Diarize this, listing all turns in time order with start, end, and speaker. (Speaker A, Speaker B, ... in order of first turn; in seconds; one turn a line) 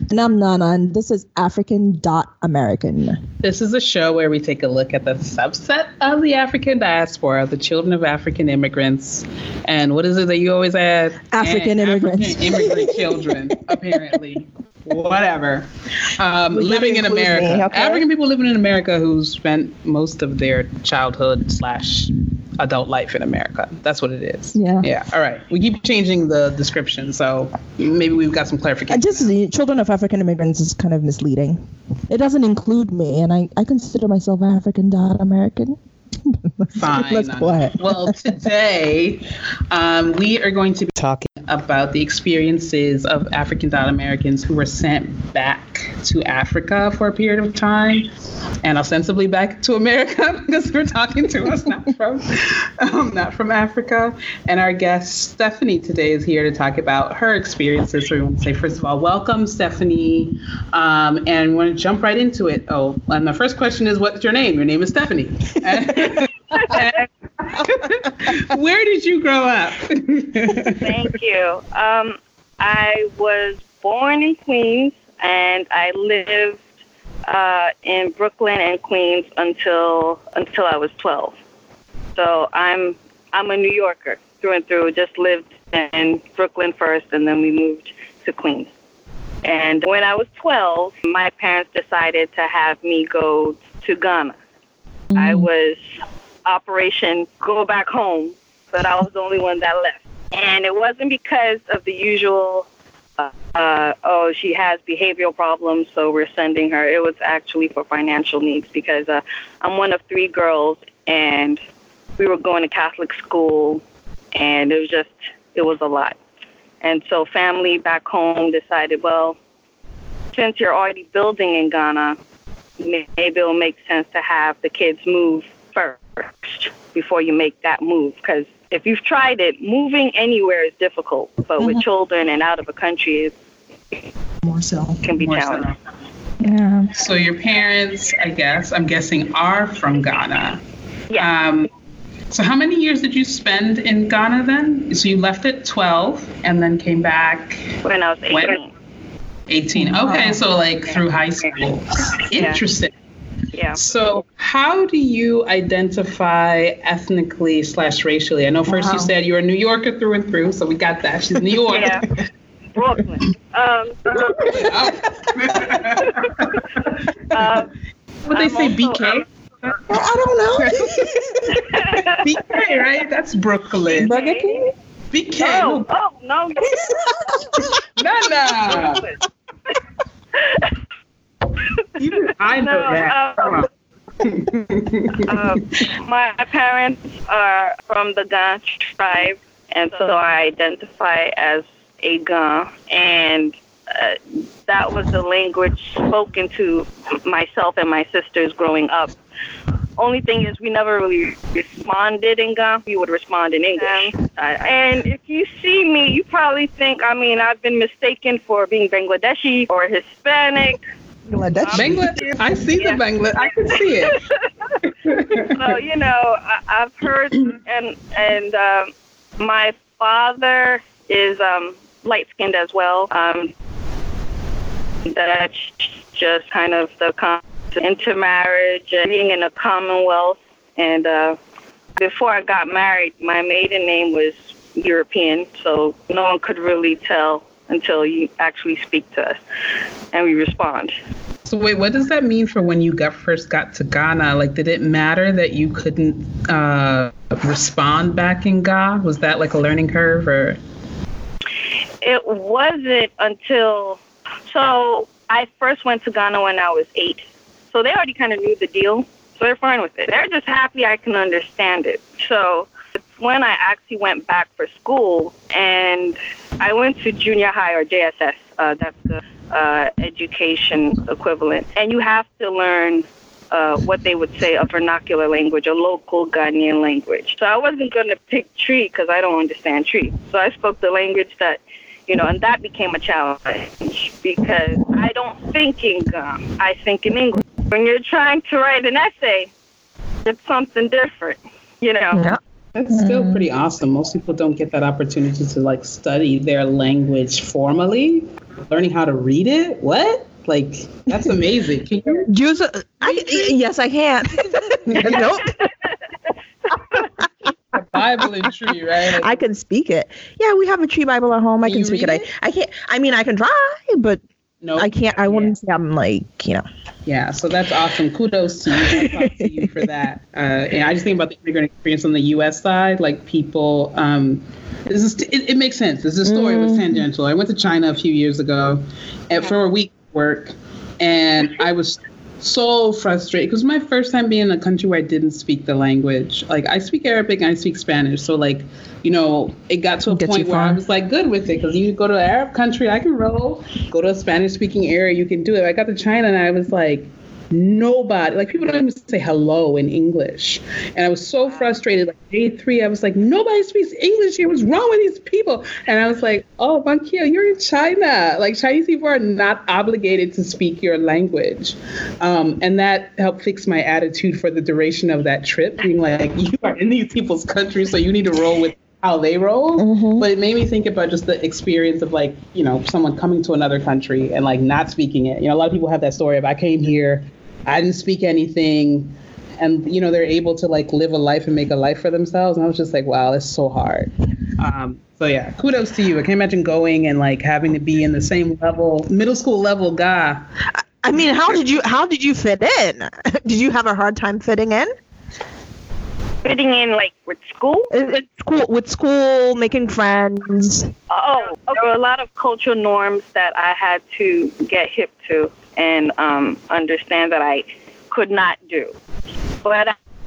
Speaker A: 0.1-3.2
Speaker B: 3.4-29.3
Speaker A: 11.3-13.6
Speaker A: 16.5-18.0
Speaker A: 24.5-24.9
Speaker A: 28.9-31.6
Speaker A: 32.1-38.2
Speaker B: 36.8-48.1
Speaker B: 48.6-70.8
Speaker C: 70.5-76.6
Speaker C: 77.3-81.4
Speaker C: 82.2-88.7
Speaker C: 89.4-94.4
Speaker C: 95.2-102.7
Speaker C: 103.2-111.6
Speaker C: 112.2-113.8
Speaker C: 114.3-116.2
Speaker C: 116.8-119.4
Speaker C: 120.3-122.2
Speaker C: 122.8-133.3
Speaker A: 134.4-135.0
Speaker C: 135.0-135.7
Speaker B: 135.2-135.8
Speaker A: 136.4-136.9
Speaker B: 136.9-140.6
Speaker B: 141.2-141.7
Speaker B: 142.3-147.8
Speaker C: 147.8-148.7
Speaker B: 148.3-148.6
Speaker B: 149.5-152.9
Speaker A: 149.8-150.4
Speaker C: 152.3-152.6
Speaker B: 153.8-162.2
Speaker A: 158.7-159.1
Speaker C: 161.7-162.0
Speaker C: 162.8-164.6
Speaker B: 164.4-166.6
Speaker C: 166.0-166.6
Speaker C: 167.3-167.7
Speaker B: 168.3-169.2
Speaker C: 168.3-169.2
Speaker A: 169.9-171.6
Speaker B: 170.6-171.5
Speaker C: 171.5-172.7
Speaker B: 172.1-174.1
Speaker C: 173.9-174.7
Speaker A: 174.0-174.6
Speaker B: 175.1-175.9
Speaker C: 175.4-177.3
Speaker B: 178.0-179.0
Speaker C: 178.7-179.2
Speaker C: 180.4-180.7
Speaker C: 181.8-183.6
Speaker B: 182.0-183.7
Speaker B: 184.2-185.3
Speaker C: 185.1-199.2
Speaker C: 200.0-210.8
Speaker A: 211.3-212.1
Speaker C: 211.6-223.5
Speaker B: 211.7-214.2
Speaker B: 215.1-215.5
Speaker C: 225.1-231.4
Speaker C: 232.0-239.4
Speaker C: 240.1-241.0
Speaker B: 241.4-250.6
Speaker C: 252.0-289.5
Speaker C: 290.2-292.3
Speaker A: 292.1-293.4
Speaker B: 292.8-302.3
Speaker A: 302.3-305.6
Speaker B: 303.0-303.6
Speaker B: 304.9-305.3
Speaker C: 305.4-305.7
Speaker B: 307.7-309.4
Speaker A: 309.2-314.2
Speaker B: 311.6-312.3
Speaker B: 314.6-315.6
Speaker A: 314.8-316.6
Speaker B: 317.1-390.4
Speaker A: 318.9-319.7
Speaker A: 326.2-327.0
Speaker A: 340.1-340.8
Speaker A: 369.8-370.3
Speaker A: 391.0-394.9
Speaker C: 396.4-397.9
Speaker A: 397.9-400.9
Speaker C: 401.1-408.9
Speaker C: 409.6-409.9